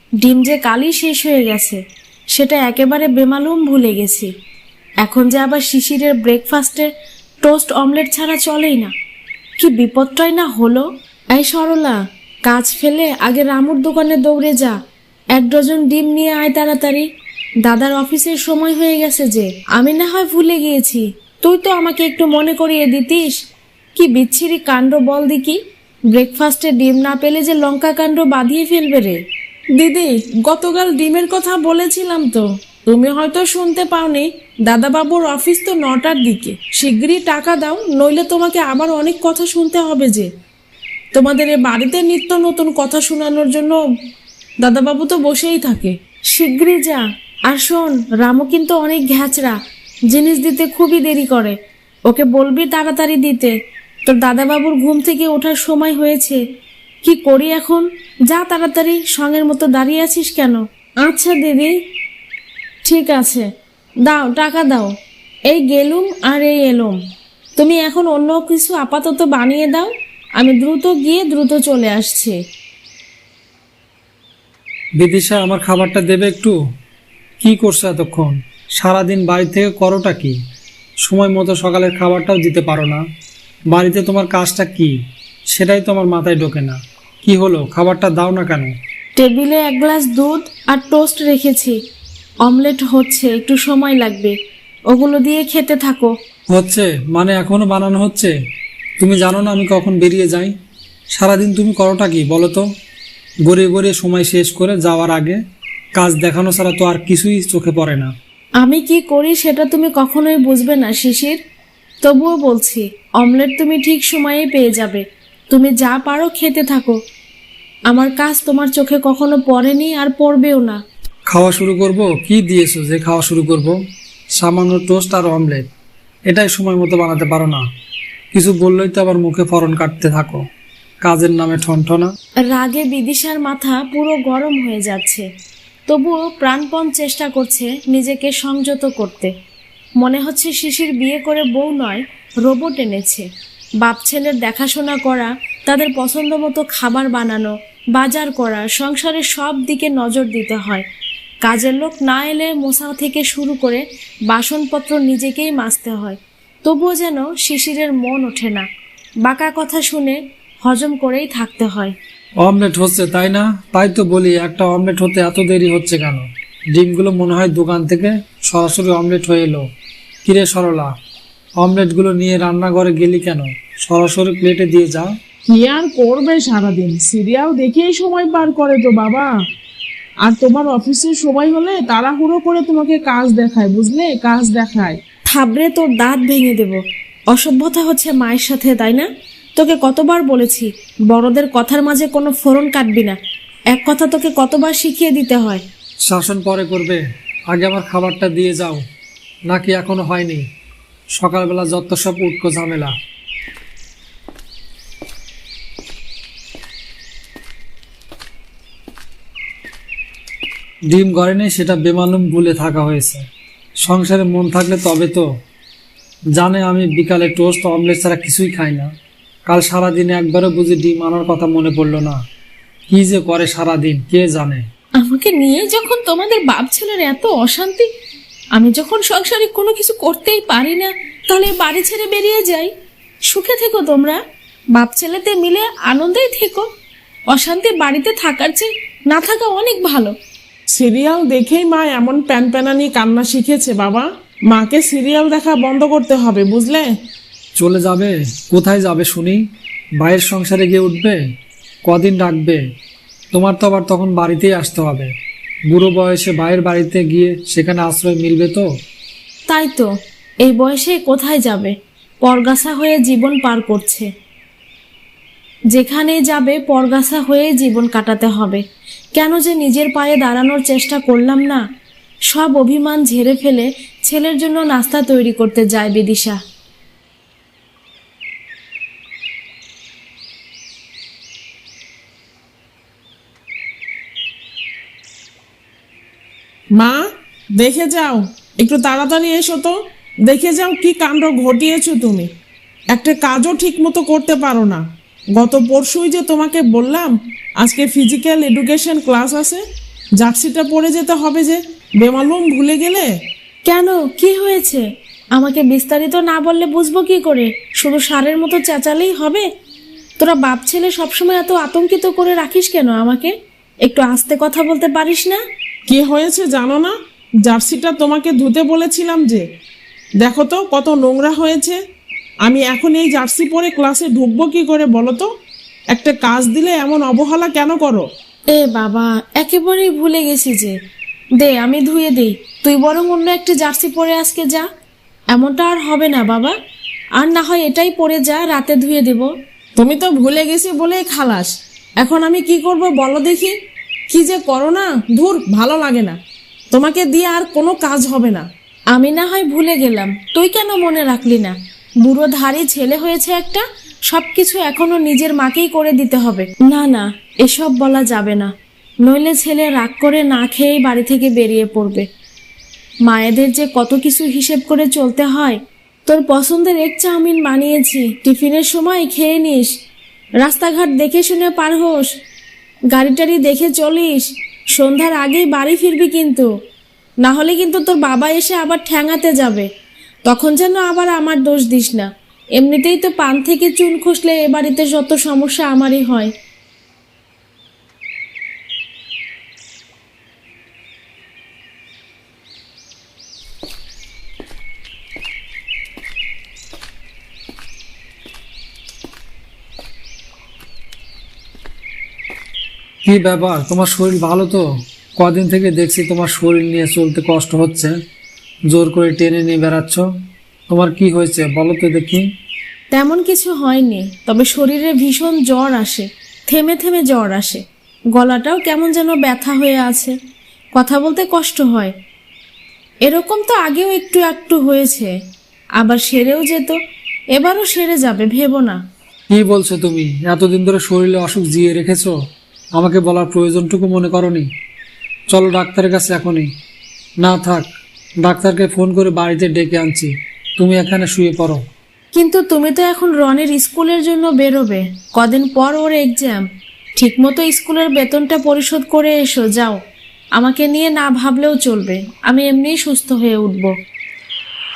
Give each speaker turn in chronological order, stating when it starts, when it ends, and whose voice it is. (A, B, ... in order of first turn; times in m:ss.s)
0:00.2-0:01.8 A
0:02.3-0:04.3 A
0:05.0-0:06.9 A
0:07.4-0:08.9 A
0:09.6-0:14.8 A
0:15.3-0:17.1 A
0:17.6-0:23.4 A
0:24.0-0:25.6 A
0:26.1-0:29.2 A
0:29.8-0:40.3 A
0:41.1-0:43.8 A
0:44.6-0:51.6 A
0:52.1-0:53.6 A
0:54.1-0:56.4 A
0:57.0-1:01.8 A
1:02.8-1:03.5 A
1:04.1-1:04.9 A
1:05.5-1:07.0 A
1:07.6-1:12.4 A
1:15.0-1:16.6 B
1:17.4-1:20.4 B
1:21.0-1:23.0 B
1:23.7-1:25.0 B
1:25.5-1:28.8 B
1:29.2-1:31.8 A
1:32.4-1:34.4 A
1:34.9-1:36.1 A
1:36.5-1:38.3 B
1:39.0-1:40.5 B
1:41.1-1:42.6 B
1:43.4-1:45.4 B
1:46.0-1:48.1 B
1:48.6-1:51.4 A
1:52.0-1:57.0 A
1:57.9-2:00.8 A
2:01.3-2:03.8 B
2:04.4-2:05.7 B
2:06.3-2:07.6 B
2:08.3-2:10.4 B
2:11.0-2:12.1 B
2:12.5-2:15.3 A
2:15.9-2:19.3 A
2:20.0-2:23.3 A
2:23.8-2:30.9 A
2:31.4-2:38.7 A
2:39.2-2:42.0 A
2:42.4-2:49.7 B
2:50.2-2:51.0 B
2:51.6-2:55.2 B
2:55.5-2:59.3 C
3:00.2-3:05.0 C
3:05.3-3:13.2 A
3:13.7-3:15.6 A
3:16.0-3:18.8 B
3:19.5-3:20.5 B
3:21.2-3:23.0 B
3:30.9-3:33.3 B
3:33.8-3:35.3 B
3:36.4-3:38.9 B
3:39.5-3:42.2 B
3:42.9-3:44.7 B
3:45.0-3:47.9 A
3:48.6-3:52.7 A
3:53.3-3:54.2 A
3:54.7-3:56.7 A
3:57.3-4:00.1 A
4:00.7-4:06.9 C
4:07.6-4:09.4 B
4:10.0-4:11.2 B
4:11.9-4:12.6 B
4:13.3-4:15.1 B
4:15.7-4:18.7 B
4:19.5-4:19.9 A
4:20.4-4:24.1 A
4:25.7-4:28.6 A
4:29.2-4:31.6 A
4:32.3-4:36.4 A
4:46.8-4:52.3 C
4:52.9-4:54.8 C
4:55.4-4:59.6 C
5:00.2-5:03.1 C
5:03.7-5:09.5 A
5:10.2-5:15.4 A
5:15.9-5:19.5 C
5:20.2-5:21.8 C
5:22.4-5:25.3 C
5:25.9-5:28.1 C
5:28.5-5:30.8 A
5:31.4-5:34.7 A
5:35.3-5:36.6 A
5:37.2-5:41.5 A
5:42.0-5:43.5 A
5:44.1-5:46.2 A
5:46.8-5:58.5 A
5:59.0-6:02.1 A
6:03.0-6:09.7 A
6:10.4-6:12.1 A
6:12.9-6:16.5 A
6:17.2-6:19.7 A
6:20.3-6:26.3 A
6:43.0-6:44.6 B
6:45.2-6:48.0 B
6:48.7-6:50.1 B
6:50.7-6:52.3 B
6:52.9-6:57.6 A
6:58.2-7:00.2 A
7:00.8-7:01.9 A
7:03.0-7:05.2 A
7:05.8-7:06.8 A
7:07.4-7:08.8 A
7:09.3-7:12.2 B
7:12.8-7:14.5 B
7:15.3-7:16.5 B
7:17.2-7:17.7 B
7:18.2-7:21.6 B
7:22.2-7:29.8 A
7:30.4-7:33.7 A